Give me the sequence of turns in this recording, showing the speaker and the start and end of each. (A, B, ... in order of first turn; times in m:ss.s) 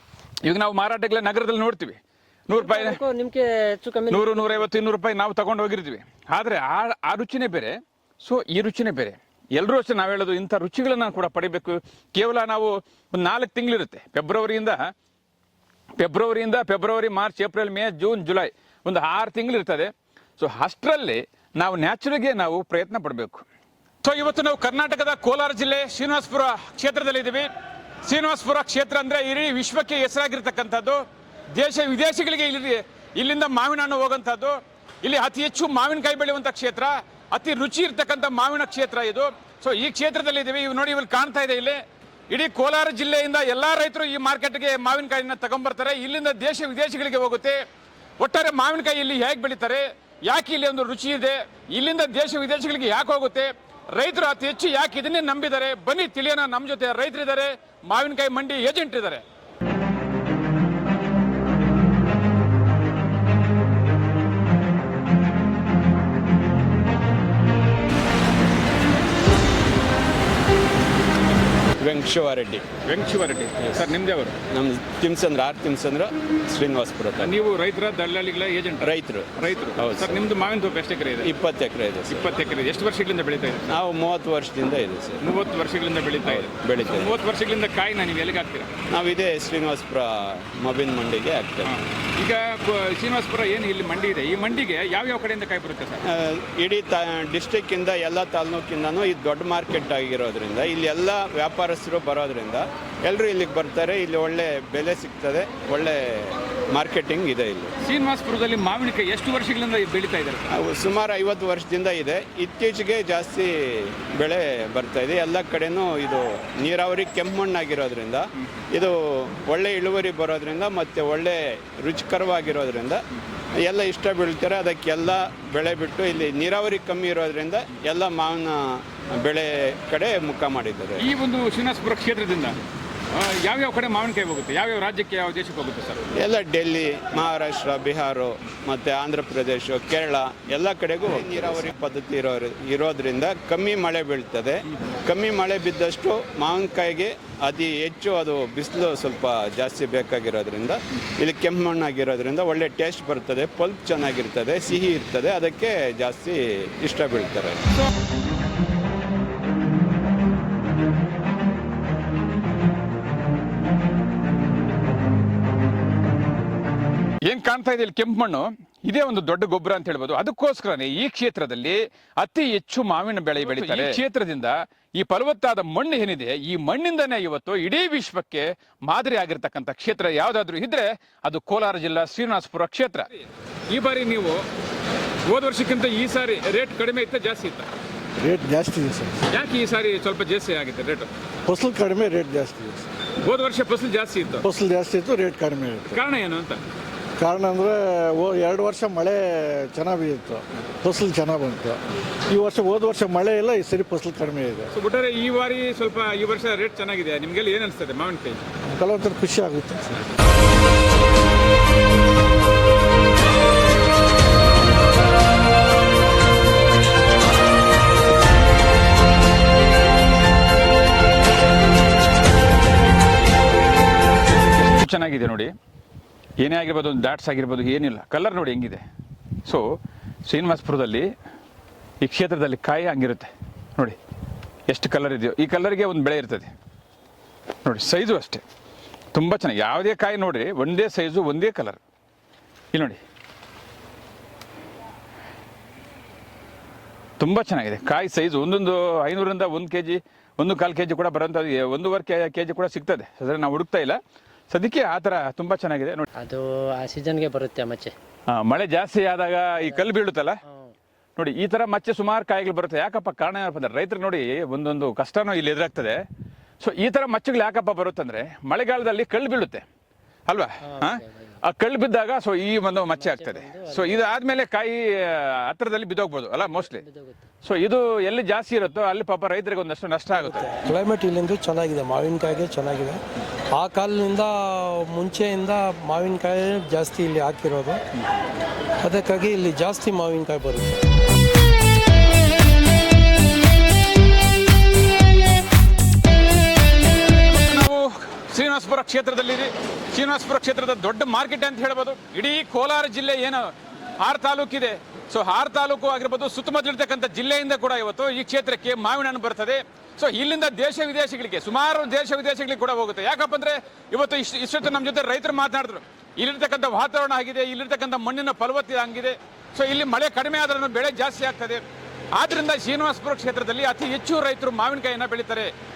0:00.4-0:03.0 A
0:02.5-0:04.8 B
0:04.1-0:14.8 A
0:16.0-0:23.4 A
0:24.0-0:27.5 A
0:28.0-0:31.0 A
0:31.5-0:47.6 A
0:48.2-0:59.2 A
1:11.8-1:12.7 C
1:12.8-1:14.4 A
1:14.5-1:17.3 C
1:17.2-1:21.3 A
1:18.8-1:20.2 C
1:21.2-1:22.2 C
1:22.1-1:23.8 A
1:23.7-1:25.2 C
1:25.2-1:28.7 A
1:26.2-1:27.1 C
1:28.9-1:31.7 C
1:31.6-1:36.0 A
1:36.1-1:47.7 C
1:47.8-1:50.6 A
1:50.5-2:03.0 C
2:03.6-2:11.0 C
2:11.0-2:12.6 A
2:13.1-2:16.0 A
2:16.2-2:37.6 C
2:47.2-3:04.4 A
3:05.2-3:07.7 A
3:08.2-3:09.3 D
3:09.3-3:11.1 A
3:11.5-3:12.9 D
3:13.2-3:14.4 A
3:14.4-3:16.0 D
3:15.9-3:16.6 A
3:17.2-3:24.7 D
3:24.7-3:28.4 A
3:28.7-3:30.1 D
3:44.5-3:45.5 A
3:46.4-3:48.8 A
3:50.2-3:51.1 A
3:52.0-3:54.0 A
3:54.7-3:56.5 A
3:57.6-3:58.4 A
3:59.1-4:01.8 A
4:02.7-4:03.0 A
4:07.2-4:16.0 A
4:16.2-4:17.9 B
4:18.3-4:20.4 A
4:19.6-4:19.9 B
4:20.4-4:20.7 B
4:21.2-4:26.0 A
4:26.6-4:29.6 A
4:30.3-4:36.8 A
4:30.6-4:31.4 B
4:32.9-4:34.1 B
4:36.4-4:37.2 B
4:37.4-4:40.6 A
4:40.6-4:43.0 E
4:43.5-4:44.3 E
4:44.9-4:47.8 E
4:48.8-4:50.8 E
4:57.1-5:25.5 A